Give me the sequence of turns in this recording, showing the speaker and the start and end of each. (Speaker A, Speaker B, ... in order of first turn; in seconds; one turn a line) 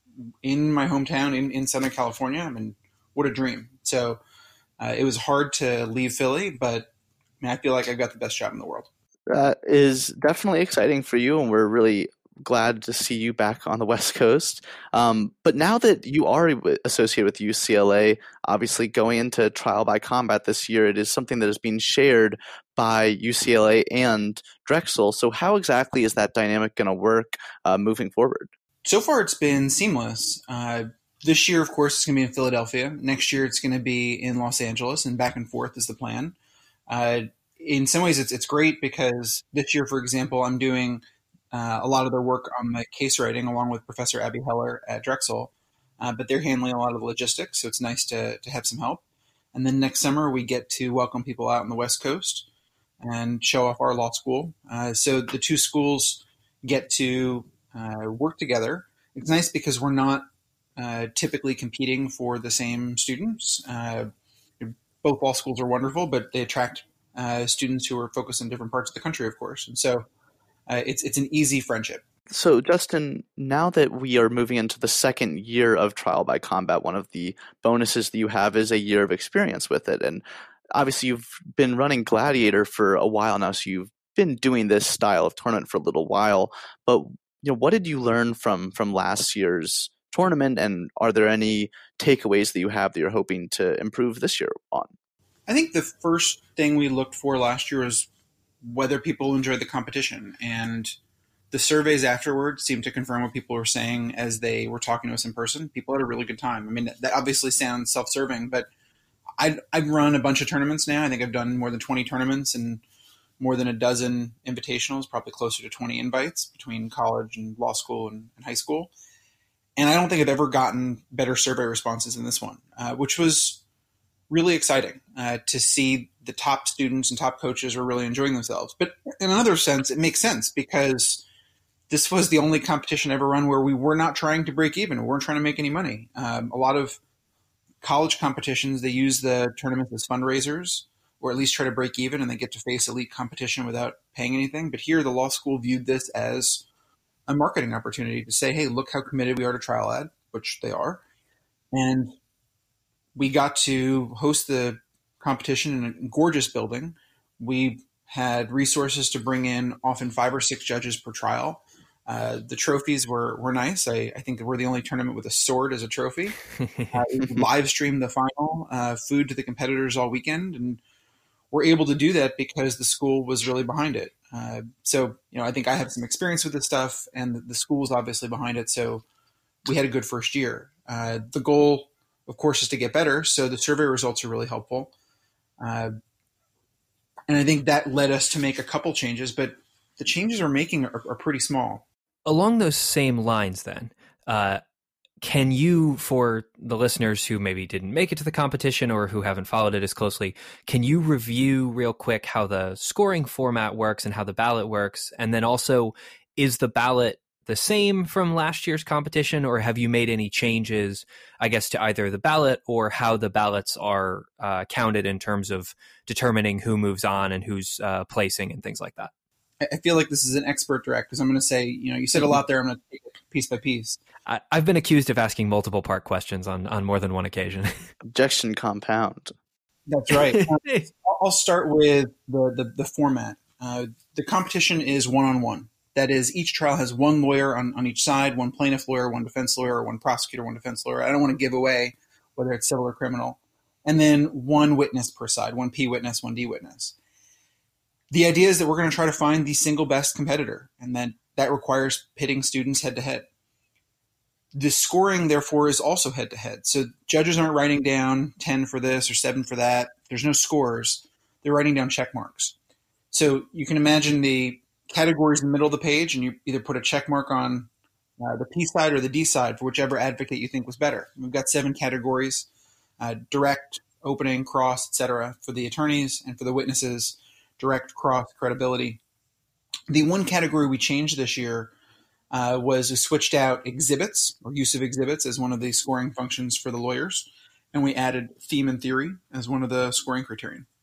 Speaker A: 0.4-4.2
Speaker A: 4.8-6.9
Speaker A: 7.4-8.9
Speaker B: 9.3-28.5
Speaker A: 28.8-36.3
Speaker A: 36.9-49.0
Speaker A: 49.5-52.5
Speaker A: 53.0-70.0
Speaker A: 70.7-72.0
Speaker B: 72.3-80.2
Speaker B: 80.7-94.9
Speaker A: 95.5-98.1
Speaker A: 98.6-101.0
Speaker A: 101.5-108.7
Speaker A: 109.4-112.8
Speaker A: 113.4-118.9
Speaker A: 119.8-123.6
Speaker A: 124.3-131.2
Speaker A: 131.9-137.0
Speaker A: 137.8-146.6
Speaker A: 147.3-151.0
Speaker A: 151.7-152.1
Speaker A: 153.1-166.4
Speaker C: 166.7-167.0
Speaker A: 166.9-170.8
Speaker A: 171.5-179.0
Speaker A: 179.6-184.9
Speaker A: 185.6-185.9
Speaker A: 187.3-191.8
Speaker C: 192.2-194.6
Speaker C: 195.2-219.1
Speaker A: 219.6-224.0
Speaker C: 224.2-227.8
Speaker B: 228.0-229.3
Speaker A: 229.9-246.9
Speaker C: 230.3-230.8
Speaker A: 248.1-253.3
Speaker A: 254.5-262.5
Speaker A: 263.1-272.5
Speaker A: 273.0-279.0
Speaker A: 279.9-281.7
Speaker A: 282.3-290.6